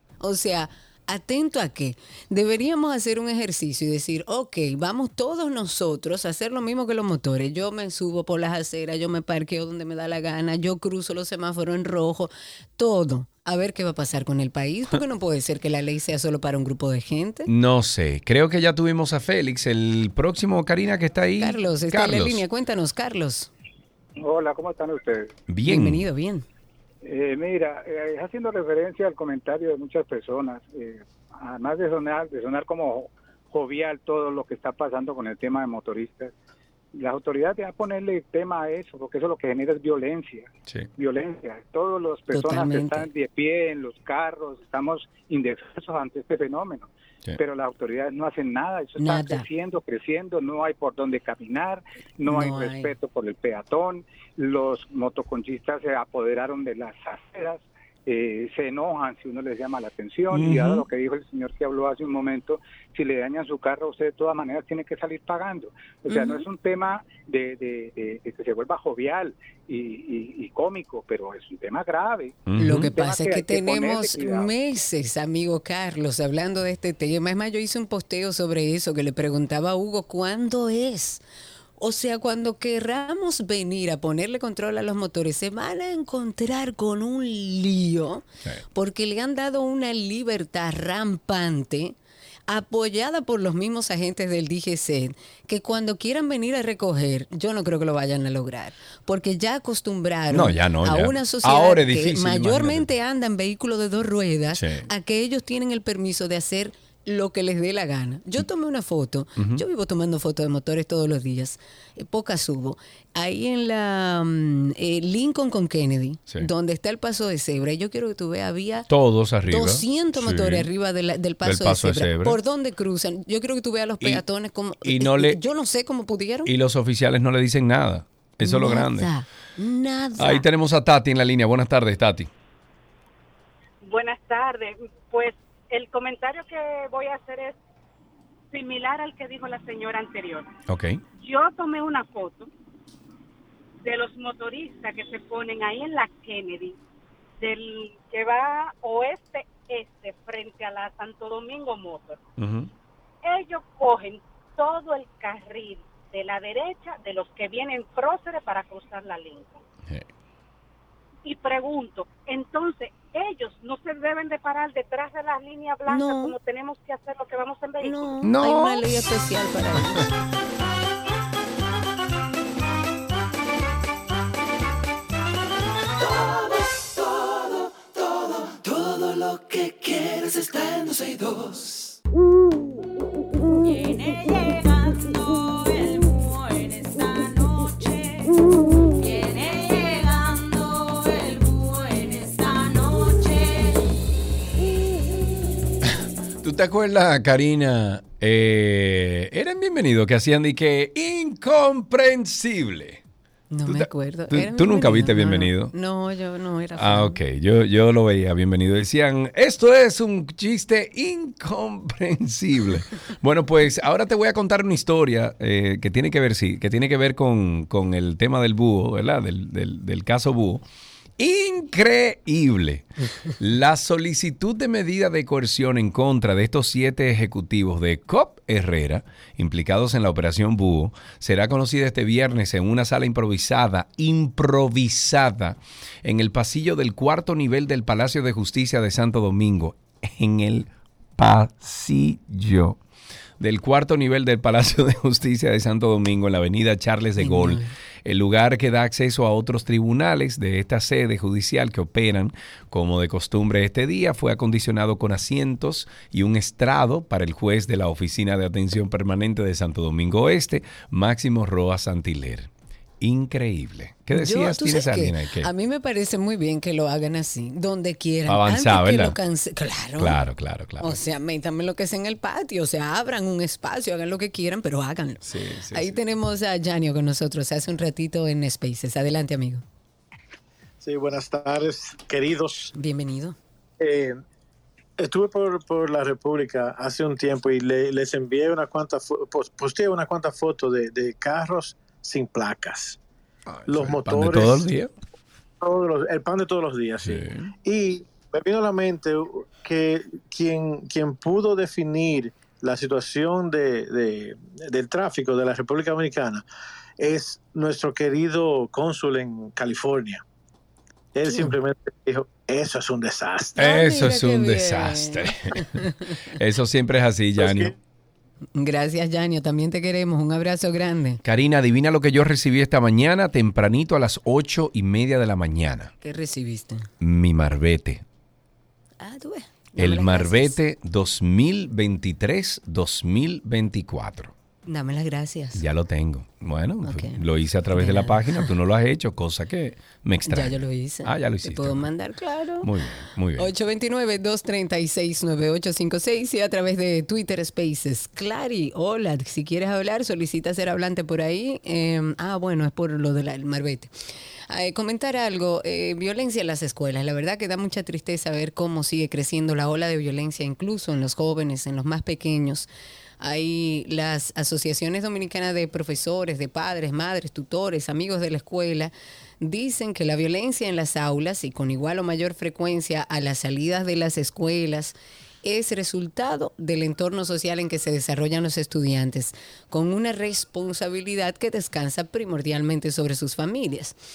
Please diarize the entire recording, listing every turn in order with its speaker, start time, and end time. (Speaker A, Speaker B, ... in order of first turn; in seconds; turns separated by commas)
Speaker A: 0.2-17.5, Speaker B: 17.5-22.4, Speaker A: 21.4-23.5, Speaker C: 24.2-25.3, Speaker B: 25.5-26.1, Speaker A: 25.7-26.4, Speaker C: 27.0-36.3, Speaker C: 37.0-74.5, Speaker A: 42.3-43.1, Speaker A: 49.0-49.5, Speaker A: 52.2-52.9, Speaker B: 60.3-60.8, Speaker A: 66.1-66.5, Speaker B: 72.5-73.0, Speaker A: 72.6-81.2, Speaker A: 81.8-92.0, Speaker A: 92.5-118.9, Speaker B: 100.3-102.9, Speaker B: 104.5-104.9, Speaker B: 109.4-109.6, Speaker B: 118.9-120.7, Speaker A: 119.5-126.5, Speaker B: 121.4-122.4, Speaker B: 124.8-125.4, Speaker B: 126.5-129.1, Speaker A: 128.4-130.4, Speaker B: 130.2-132.3, Speaker D: 133.8-137.6, Speaker D: 138.5-140.5, Speaker B: 140.7-141.0, Speaker D: 141.2-142.5, Speaker D: 143.8-146.8, Speaker D: 147.4-152.2, Speaker B: 152.4-152.7, Speaker D: 153.2-159.6, Speaker D: 161.2-168.2, Speaker A: 165.9-166.4, Speaker A: 167.8-170.1, Speaker B: 168.2-169.1, Speaker B: 169.7-170.1, Speaker E: 176.0-182.0, Speaker B: 196.4-203.0, Speaker A: 203.5-207.2, Speaker B: 203.7-205.7, Speaker B: 206.8-220.6, Speaker B: 221.2-242.8, Speaker B: 243.4-262.5, Speaker A: 247.2-247.7, Speaker B: 263.0-265.5, Speaker A: 264.1-270.2, Speaker B: 268.3-269.2, Speaker B: 270.0-271.0, Speaker A: 270.8-279.6, Speaker B: 275.2-276.0, Speaker F: 280.8-282.7, Speaker A: 282.8-283.4, Speaker F: 283.8-284.2, Speaker F: 285.0-293.0, Speaker B: 293.5-294.9, Speaker F: 293.7-294.7, Speaker F: 295.6-306.4, Speaker B: 297.0-297.5, Speaker F: 307.0-310.2, Speaker F: 311.1-313.6, Speaker B: 313.6-315.6, Speaker A: 313.6-316.1, Speaker B: 316.4-317.7, Speaker F: 317.4-317.7, Speaker A: 318.6-321.2, Speaker B: 321.2-325.9, Speaker A: 326.0-326.9, Speaker B: 327.0-328.0, Speaker A: 329.0-330.6, Speaker B: 329.8-334.3, Speaker A: 334.7-335.6, Speaker B: 335.6-341.9, Speaker A: 336.8-337.2, Speaker A: 337.7-338.5, Speaker A: 340.3-342.7, Speaker B: 342.6-343.5, Speaker A: 343.4-353.9, Speaker A: 354.5-362.7, Speaker A: 363.2-384.0